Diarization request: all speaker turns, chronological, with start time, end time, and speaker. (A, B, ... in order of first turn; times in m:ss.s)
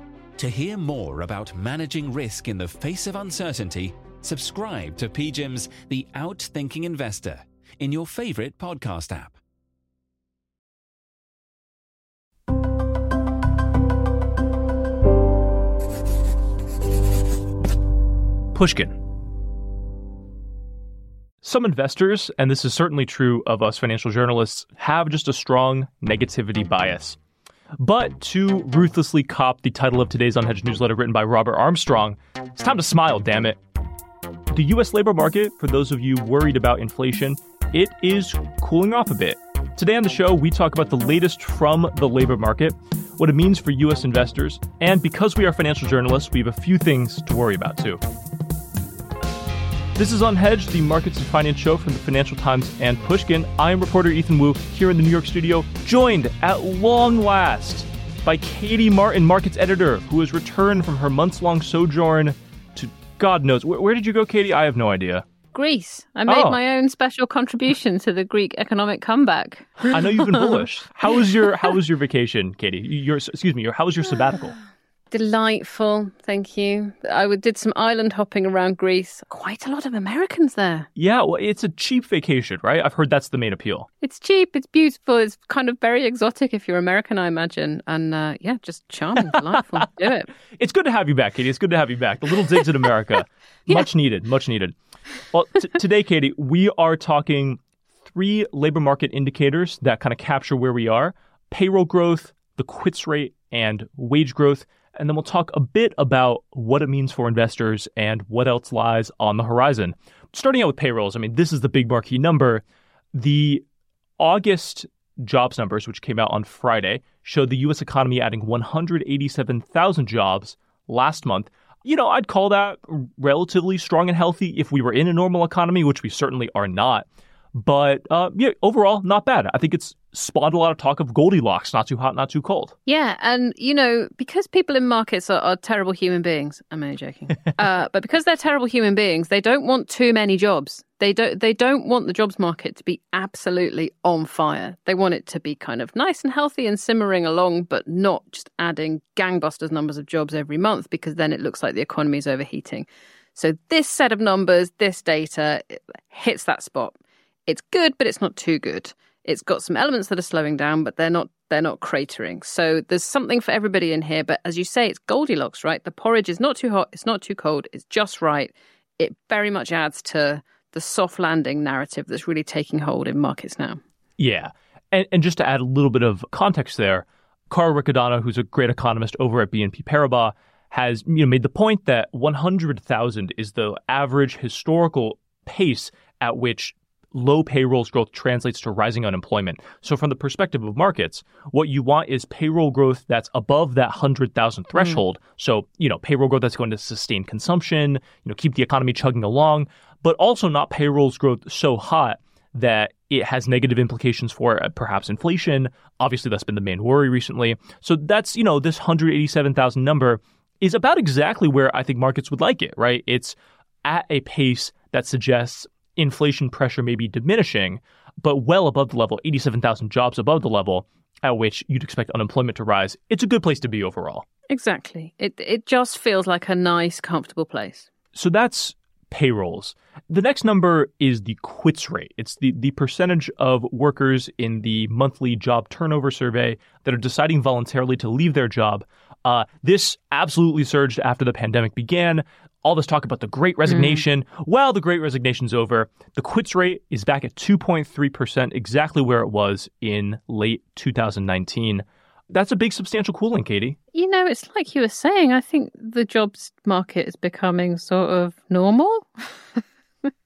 0:00.4-0:09.4 A
0:18.5-0:19.0 B
0:21.4-0:27.2 B
0:27.8-0:33.6 B
0:34.5-0:48.0 B
0:50.0-1:05.2 B
1:05.5-1:10.5 C
1:06.3-1:06.6 B
1:09.9-1:14.6 B
1:15.1-1:20.9 C
1:21.0-1:23.9 B
1:24.0-1:30.3 C
1:30.6-1:34.7 B
1:35.3-1:52.6 B
1:53.1-1:53.6 B
1:54.2-2:12.7 B
2:12.8-2:53.8 C
2:54.2-3:44.2 B
3:44.5-3:47.9 C
3:48.1-4:13.8 B
4:03.7-4:04.0 C
4:13.9-4:19.6 C